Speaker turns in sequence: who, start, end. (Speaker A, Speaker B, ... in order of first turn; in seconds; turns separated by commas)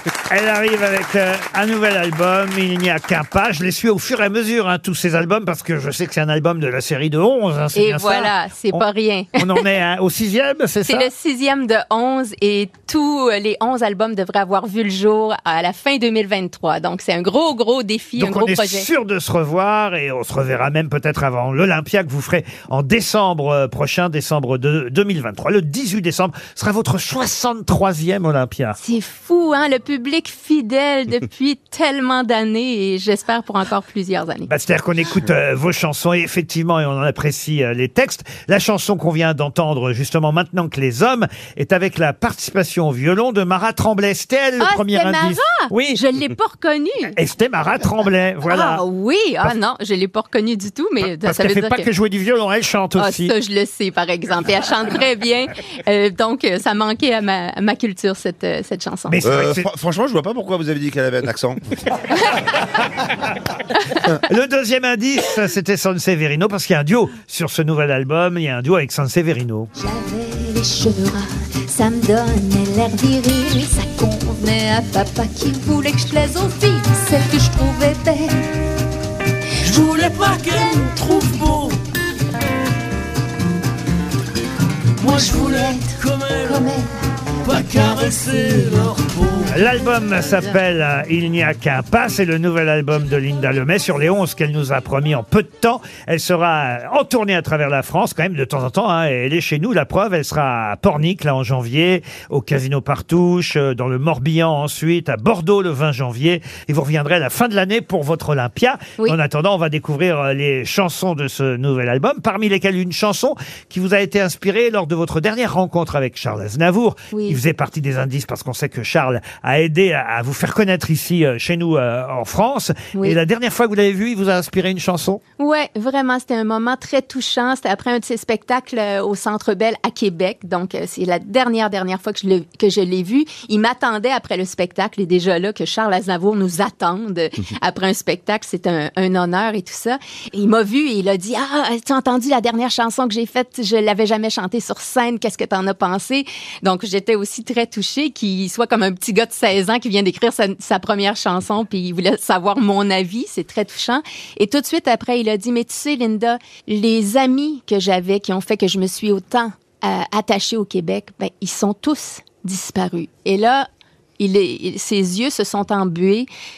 Speaker A: 0.3-8.8, Speaker B: 7.7-9.6, Speaker A: 9.4-11.1, Speaker B: 10.8-18.9, Speaker A: 18.2-28.8, Speaker B: 28.8-34.5, Speaker A: 34.5-46.0, Speaker B: 44.6-47.1, Speaker A: 47.2-48.8, Speaker B: 48.5-51.9, Speaker A: 51.0-53.3, Speaker B: 53.0-59.2, Speaker A: 59.1-59.7, Speaker C: 59.2-61.6, Speaker A: 64.3-69.7, Speaker D: 69.8-78.5, Speaker D: 79.6-80.9, Speaker E: 79.6-81.8, Speaker E: 85.0-86.8, Speaker D: 85.0-89.0, Speaker E: 87.4-89.6, Speaker A: 89.5-125.2, Speaker B: 117.1-117.4, Speaker B: 125.4-163.7, Speaker B: 164.2-166.3